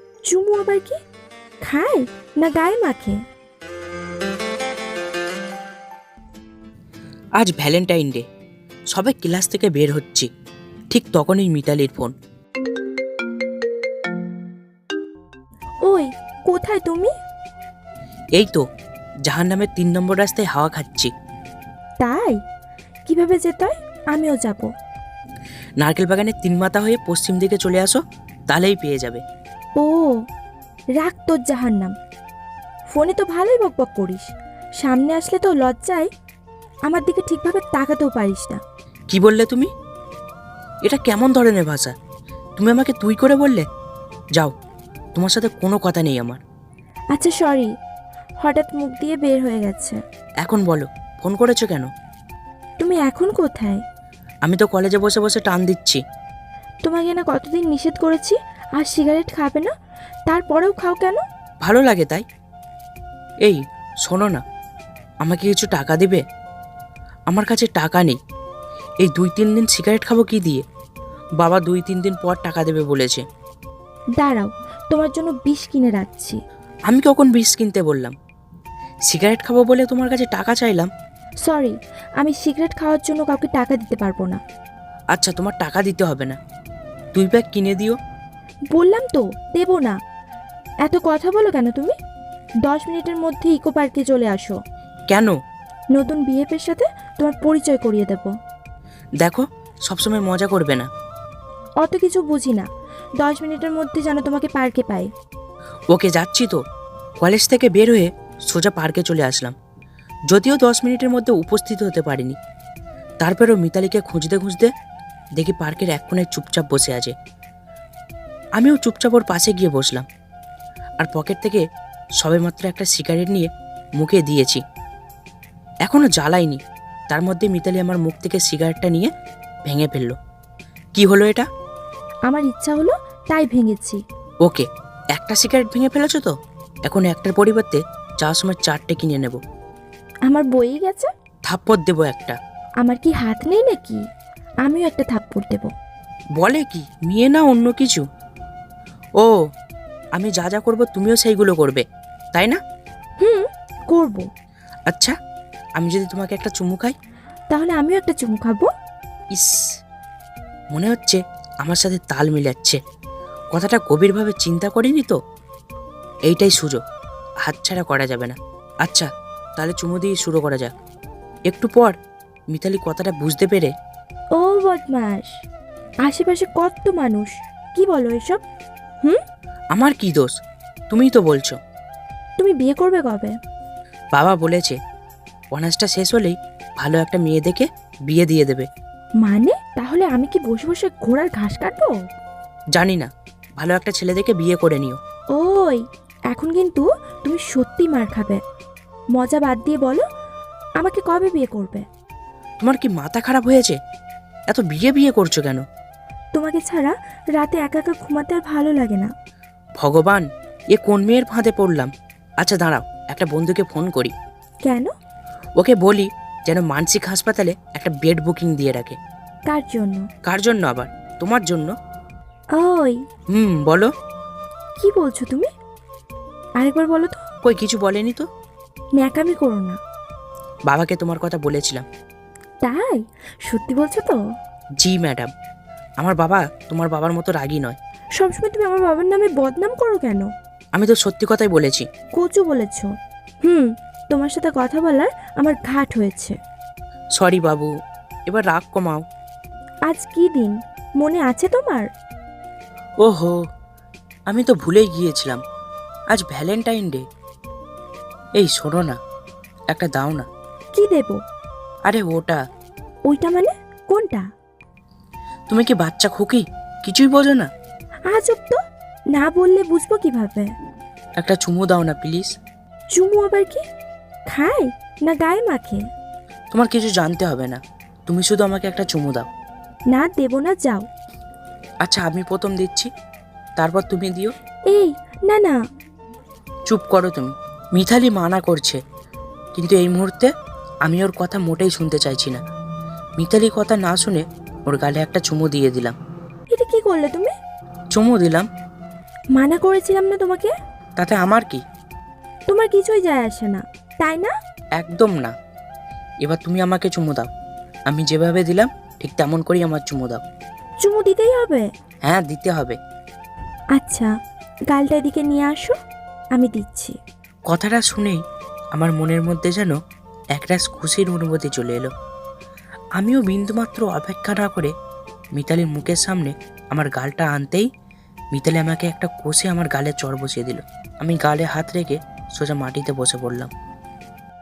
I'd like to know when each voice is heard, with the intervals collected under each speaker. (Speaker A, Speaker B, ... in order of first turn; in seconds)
Speaker A: 0.3-1.0, 1.6-3.2, 15.8-17.1, 22.0-22.4, 23.1-24.7, 29.8-30.1, 31.0-31.9, 32.9-34.3, 34.8-36.1, 36.9-38.6, 47.1-47.7, 48.4-50.0, 52.8-53.8, 56.8-59.7, 60.3-61.2, 74.2-76.4, 81.5-84.4, 88.7-90.0, 90.8-92.0, 92.7-94.6, 95.9-98.3, 101.8-102.7, 103.2-105.1, 132.3-134.0, 140.3-141.1, 142.8-144.0, 144.7-145.7, 153.2-154.3, 157.5-158.7, 174.4-175.3, 176.1-178.4, 182.4-183.3, 189.2-191.9, 195.3-198.4, 199.2-200.0, 200.8-201.8, 206.3-209.1, 214.7-214.9, 219.5-220.1, 222.6-223.0, 224.8-225.5, 226.6-227.2, 229.0-229.8, 232.6-234.2, 238.2-240.3, 242.2-242.9, 243.4-246.3, 249.9-251.9, 260.7-261.2, 263.1-264.3, 268.1-268.6, 269.1-270.5, 272.9-273.6, 274.3-275.8, 279.9-280.9, 284.7-285.6, 296.5-297.3, 299.4-300.5, 302.5-304.3, 310.8-311.7, 313.8-314.1, 314.7-315.8, 316.3-317.0
Speaker B: 7.4-8.2, 8.9-10.3, 10.9-12.1, 18.4-18.6, 19.3-21.1, 25.8-29.2, 39.1-39.7, 40.9-41.9, 42.6-43.6, 45.1-46.4, 50.4-51.9, 54.4-56.0, 61.6-62.2, 63.4-64.4, 65.2-66.2, 67.3-68.2, 69.0-70.7, 71.4-73.2, 76.9-78.2, 79.1-80.9, 85.1-86.4, 87.1-88.0, 99.2-100.9, 105.9-106.6, 107.2-109.5, 110.3-112.3, 113.2-114.7, 115.4-117.2, 118.6-120.1, 121.0-121.6, 122.2-124.6, 125.9-129.1, 129.7-130.2, 130.9-131.5, 134.4-136.3, 136.9-139.4, 141.5-142.4, 146.4-148.0, 150.2-152.6, 154.9-155.2, 155.8-157.0, 159.3-159.7, 160.7-162.8, 163.5-165.2, 166.3-166.8, 167.4-170.7, 171.5-171.9, 172.5-173.7, 179.7-180.3, 180.9-181.6, 184.1-184.8, 185.5-188.7, 192.8-193.1, 193.6-195.0, 202.6-203.8, 204.5-205.6, 209.8-214.1, 215.6-219.0, 220.2-221.7, 223.3-223.9, 227.4-228.3, 230.7-231.8, 234.8-235.3, 236.0-237.8, 240.8-241.9, 247.2-247.7, 248.3-249.0, 253.0-253.4, 254.3-255.4, 256.1-257.1, 258.4-259.0, 259.7-260.3, 261.9-262.4, 265.5-267.5, 271.2-272.3, 276.5-279.3, 281.9-282.9, 283.6-284.3, 286.7-288.8, 289.6-290.3, 290.9-292.4, 293.2-296.0, 297.9-298.5, 301.0-301.6, 304.8-305.3, 306.2-307.3, 307.9-310.2, 312.1-312.8, 317.5-318.2, 318.8-319.8, 320.4-321.9, 323.0-324.7, 325.4-327.7, 328.3-333.5